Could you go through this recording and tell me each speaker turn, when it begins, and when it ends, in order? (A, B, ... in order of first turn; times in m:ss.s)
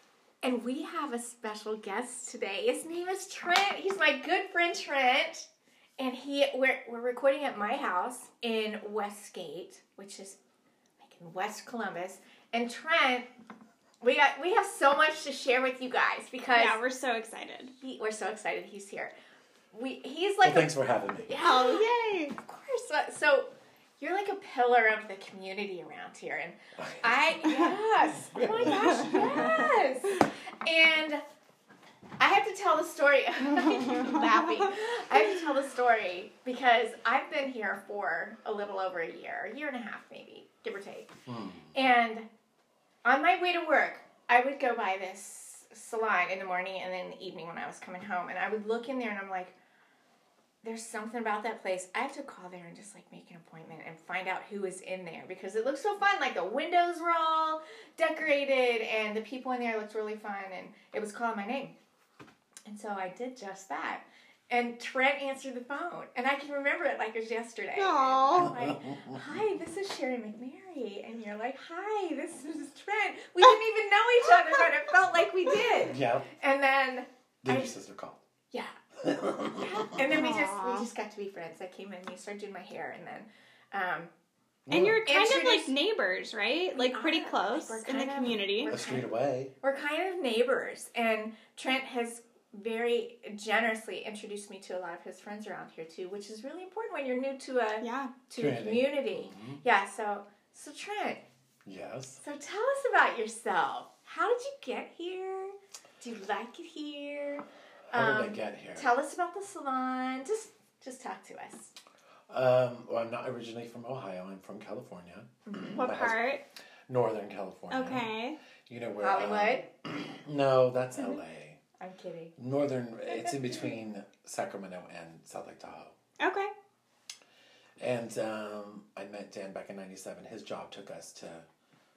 0:00.4-0:05.5 A
0:06.0-0:10.4 A
0:11.0-0:13.2 A
0:14.0-0:16.8 A
0:16.5-0:17.7 B
0:17.8-0:19.1 A
0:19.7-0:20.7 A
0:20.4-0:21.3 C
0:21.2-0:21.8 A
0:21.4-0:22.4 B
0:22.4-0:31.2 A
0:26.8-0:27.4 C
0:28.1-0:29.5 C
0:28.7-0:29.7 B
0:32.2-0:41.1 A
0:33.6-0:34.6 B
0:41.3-0:41.7 C
0:41.7-0:42.3 A
0:43.0-0:49.5 A
0:50.6-1:01.7 A
1:02.6-1:17.7 A
1:07.8-1:08.5 B
1:08.3-1:09.4 C
1:15.8-1:16.3 C
1:17.4-1:18.2 C
1:19.0-1:20.1 C
1:19.5-1:24.1 A
1:20.1-1:20.9 B
1:24.7-1:25.0 C
1:24.7-1:28.8 B
1:25.0-1:25.7 A
1:26.7-1:29.1 A
1:28.7-1:29.5 C
1:29.6-1:41.2 A
1:37.8-1:38.1 B
1:38.3-1:39.6 C
1:41.6-1:42.2 C
1:42.2-1:51.7 A
1:47.9-1:48.9 C
1:52.3-1:56.2 C
1:55.4-1:55.8 A
1:55.8-1:56.4 B
1:56.9-1:58.1 C
1:57.7-1:58.4 B
1:58.7-2:01.6 C
1:59.0-1:59.6 A
2:01.8-2:02.3 A
2:02.4-2:05.9 C
2:03.1-2:03.7 A
2:06.2-2:06.5 B
2:07.8-2:11.4 C